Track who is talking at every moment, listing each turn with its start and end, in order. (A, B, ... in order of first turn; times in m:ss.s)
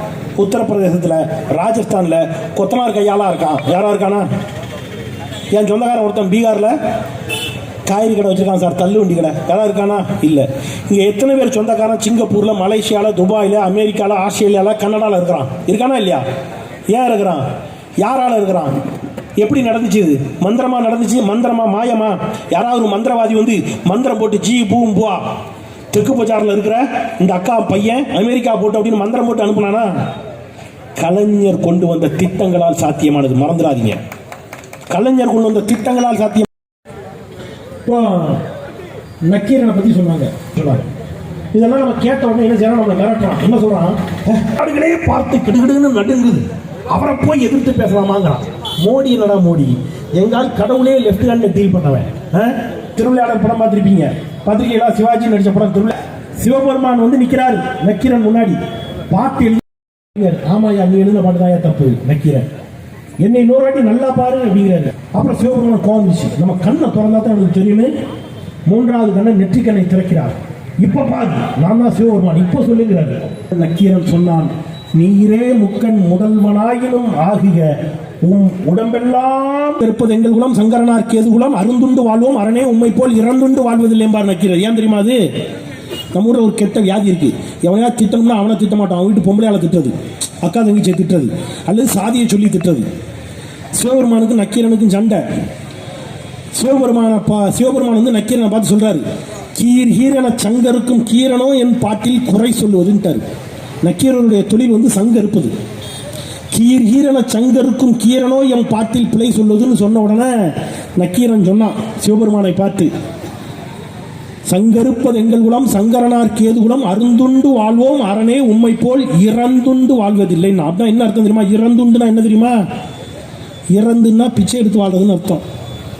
0:00.4-0:04.3 A
0:05.5-0:06.7 A
0:07.8-0:16.2 A
0:16.9-0:17.4 A
0:18.0-0:18.8 A
0:19.4-0:25.3 A
0:25.9-0:29.9 A
0:31.0-0:34.0 A
0:34.9-0:36.5 A
0:37.8-0:38.4 A
0:39.3-0:40.8 A
0:41.5-0:58.6 A
0:59.1-1:02.4 A
1:03.2-1:07.9 A
1:08.7-1:25.2 A
1:26.1-1:32.8 A
1:33.7-1:35.2 A
1:36.5-1:39.0 A
1:39.5-1:43.2 A
1:43.8-1:45.5 A
1:46.5-1:52.9 A
1:54.4-2:02.6 A
2:03.7-2:05.4 A